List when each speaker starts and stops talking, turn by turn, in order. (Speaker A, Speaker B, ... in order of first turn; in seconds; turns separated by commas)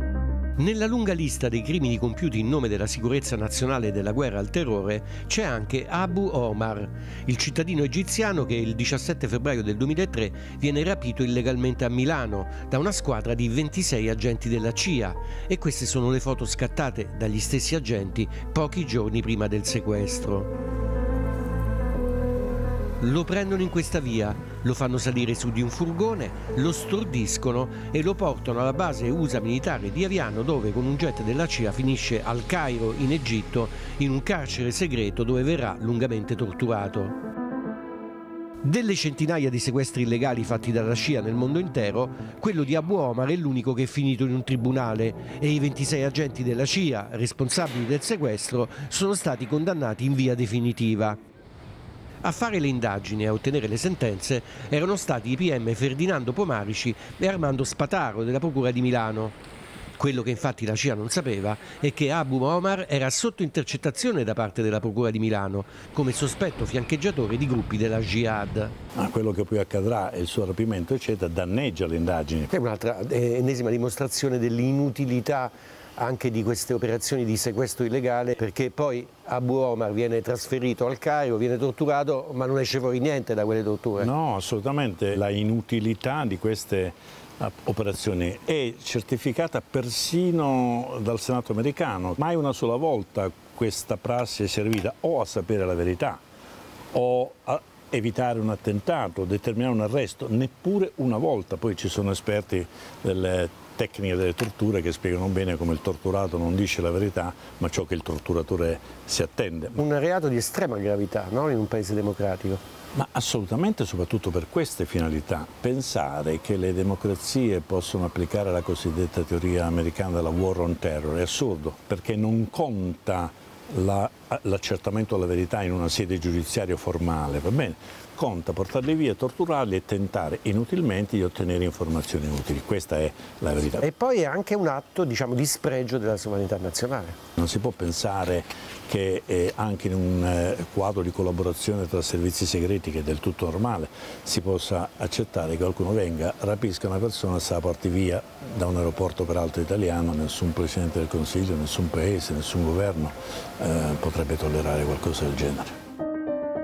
Speaker A: 0.6-20.5, Speaker A: 23.0-37.1, Speaker A: 38.6-51.2, Speaker A: 52.2-59.4, Speaker A: 60.0-68.7, Speaker B: 69.0-72.5, Speaker A: 72.5-84.1, Speaker B: 84.0-96.2, Speaker B: 96.9-109.8, Speaker A: 109.8-112.6, Speaker B: 112.9-133.8, Speaker A: 133.8-137.2, Speaker B: 137.4-155.7